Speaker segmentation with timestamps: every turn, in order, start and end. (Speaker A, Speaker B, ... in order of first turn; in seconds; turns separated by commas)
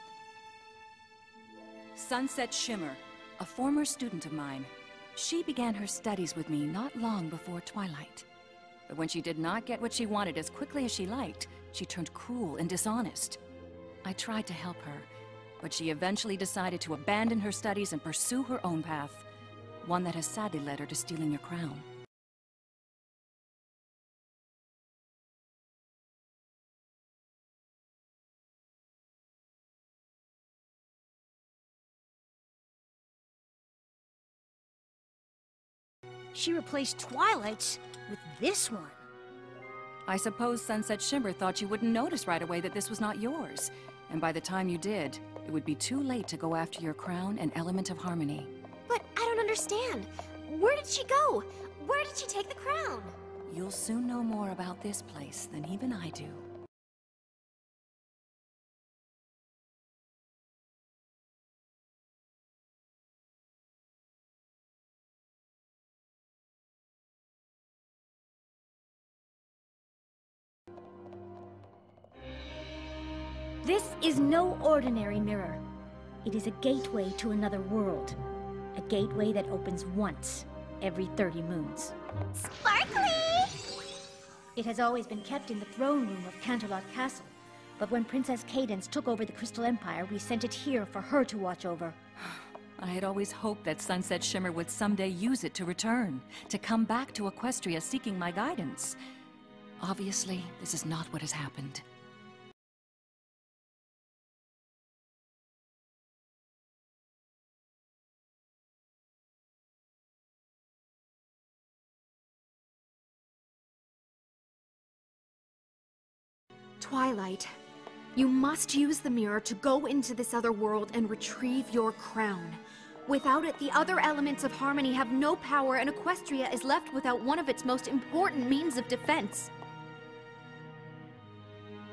Speaker A: 1.9-8.3, Speaker A: 8.9-13.4, Speaker A: 14.0-15.1, Speaker A: 15.6-19.3, Speaker A: 19.8-21.9, Speaker B: 36.3-39.0, Speaker A: 40.1-48.5, Speaker C: 48.9-53.1, Speaker A: 53.5-56.4, Speaker B: 73.6-75.6, Speaker B: 76.2-78.2, Speaker B: 78.8-82.0, Speaker D: 82.4-83.5, Speaker B: 84.6-92.0, Speaker A: 92.8-99.0, Speaker A: 99.8-101.8, Speaker D: 116.8-117.5, Speaker D: 118.2-129.5